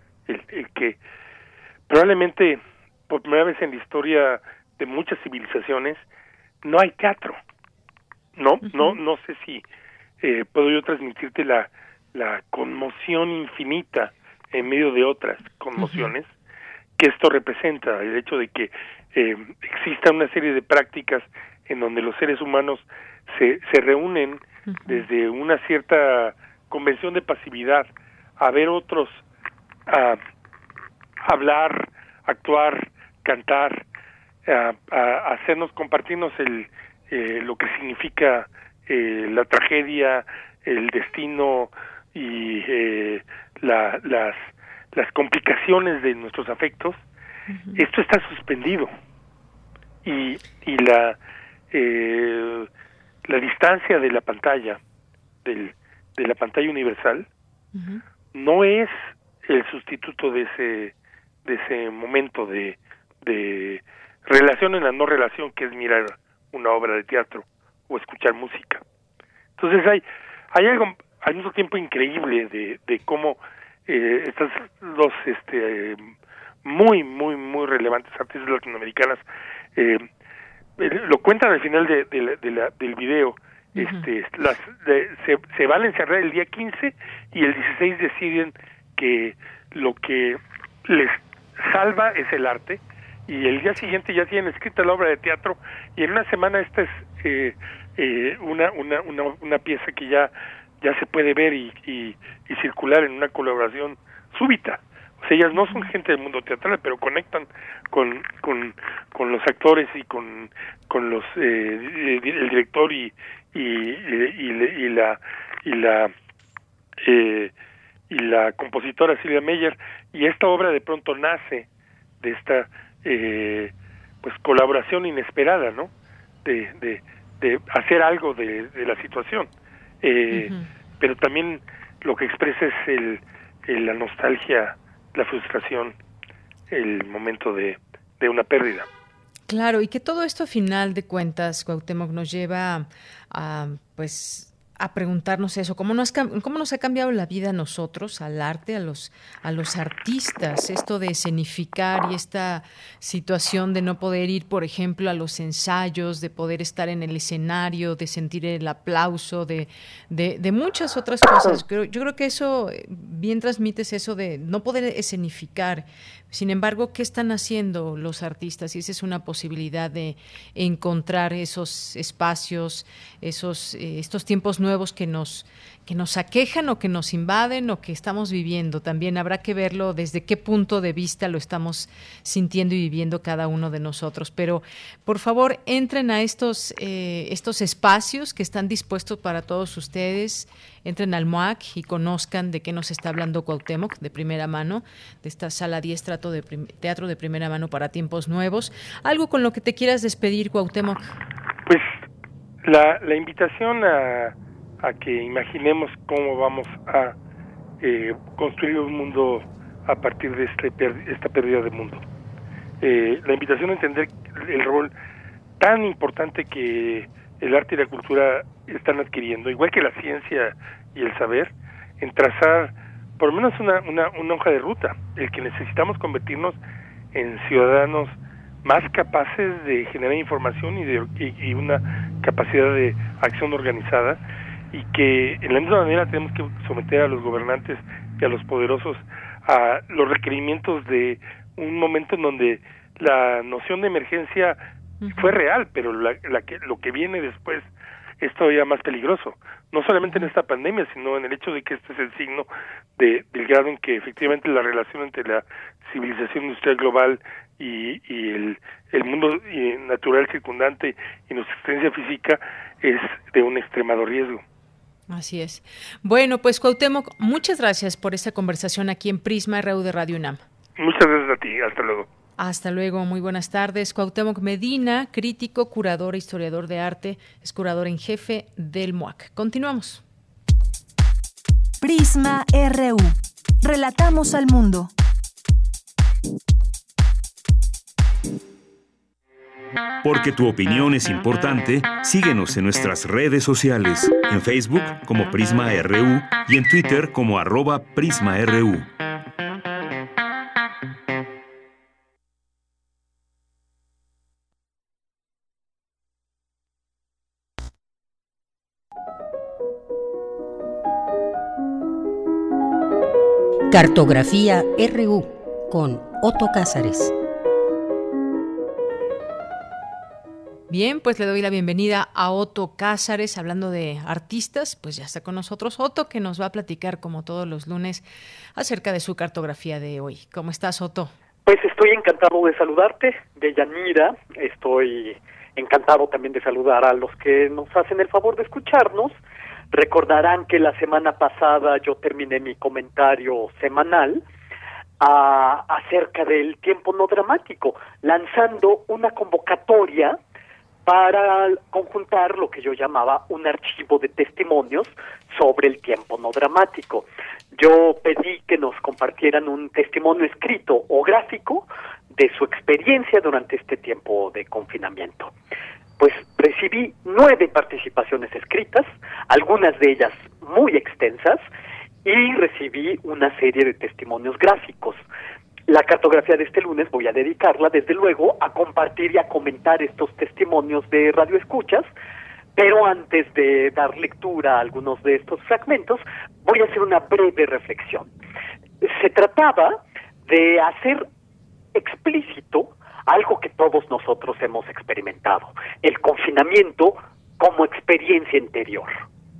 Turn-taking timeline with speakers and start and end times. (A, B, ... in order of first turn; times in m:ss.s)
0:00.3-0:01.0 A
0:01.9-0:06.0 A
0:06.6-0:07.4 A
0:08.4-0:09.6 A
0:08.7-0:09.0 B
0:10.2-0:16.3 A
0:15.8-0:16.1 B
0:17.0-0:29.2 A
0:24.7-0:25.0 B
0:29.9-0:30.2 A
0:31.2-0:33.8 A
0:34.4-0:47.0 A
0:47.5-0:47.8 B
0:47.8-0:48.9 A
0:50.0-0:51.2 A
0:51.7-0:52.7 A
0:53.2-0:54.8 A
0:55.4-0:57.3 A
0:57.7-0:58.0 B
0:58.3-1:00.9 A
1:01.4-1:08.8 A
1:09.6-1:20.0 A
1:20.8-1:56.1 A
1:23.8-1:24.1 B
1:45.6-1:45.9 B
1:57.0-1:57.5 A
1:58.1-2:01.6 A
2:02.2-2:05.9 A
2:06.4-2:09.5 A
2:10.0-2:16.0 A
2:10.3-2:10.7 B
2:16.7-2:18.9 A
2:19.5-3:21.1 B
3:21.7-3:22.0 A
3:22.6-3:27.2 A
3:27.8-3:32.0 A
3:32.8-3:34.9 A
3:35.6-3:46.6 A
3:47.1-3:54.2 A
3:54.7-4:04.6 A
4:05.0-4:05.3 B
4:05.1-4:07.7 A
4:08.2-4:24.4 A
4:10.0-4:10.3 B
4:25.1-4:30.4 B
4:30.8-4:32.1 A
4:32.4-4:40.0 B
4:41.8-4:44.9 C
4:50.0-4:58.9 D
5:13.7-5:17.1 E
5:20.7-5:28.0 B
5:28.6-5:31.1 B
5:31.4-5:39.2 F
5:39.7-5:44.2 F
5:45.0-5:50.2 F
5:50.8-6:05.3 F
6:06.0-6:11.4 F
6:12.0-6:15.0 F
6:15.7-6:21.9 F
6:22.5-6:28.1 F
6:28.8-6:31.0 F
6:31.7-6:39.0 F